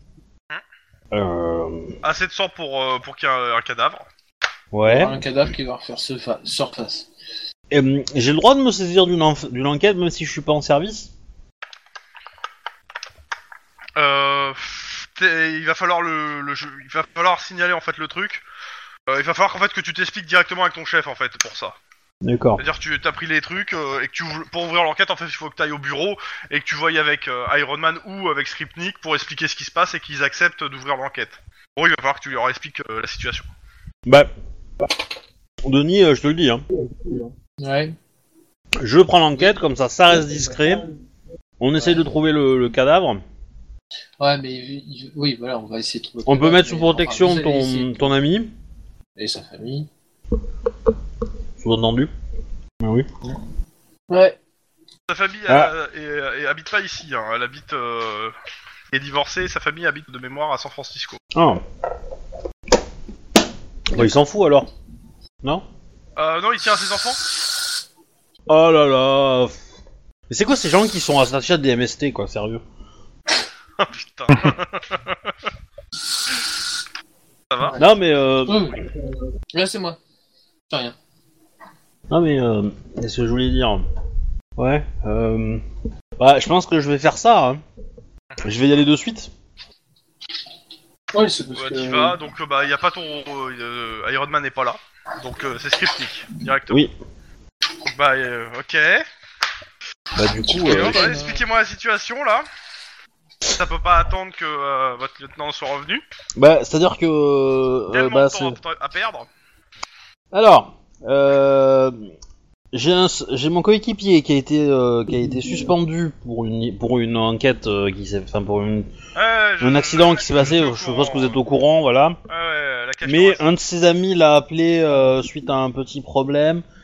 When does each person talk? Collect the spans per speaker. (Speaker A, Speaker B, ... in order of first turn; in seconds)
Speaker A: 1.1-2.0, 4.7-5.2, 7.7-11.1, 22.2-22.6, 35.6-36.6, 38.8-40.8, 41.6-43.2, 46.2-48.5, 51.6-52.1, 52.8-53.4, 55.5-55.7, 61.3-61.6, 63.9-64.7, 68.5-69.6, 70.3-72.6, 77.8-78.8, 82.1-83.8, 84.6-85.6, 86.2-87.6, 88.4-89.3, 100.1-101.1, 106.3-108.6, 110.3-112.0, 112.7-118.9, 119.6-122.2, 123.0-126.6
Speaker B: 2.0-4.0, 13.9-18.4, 19.1-21.8, 22.6-33.5, 55.1-58.3, 58.9-61.2, 66.2-67.2, 73.8-75.3, 77.5-77.8, 91.5-96.9, 97.8-99.0, 100.5-102.5, 103.5-106.0, 107.9-109.3, 119.1-121.4, 122.3-123.5
Speaker C: 4.9-7.1, 37.6-38.0, 44.2-47.9, 49.1-49.9, 54.1-54.4, 78.4-78.9, 79.5-80.0, 80.7-80.9, 91.1-92.2, 100.5-101.4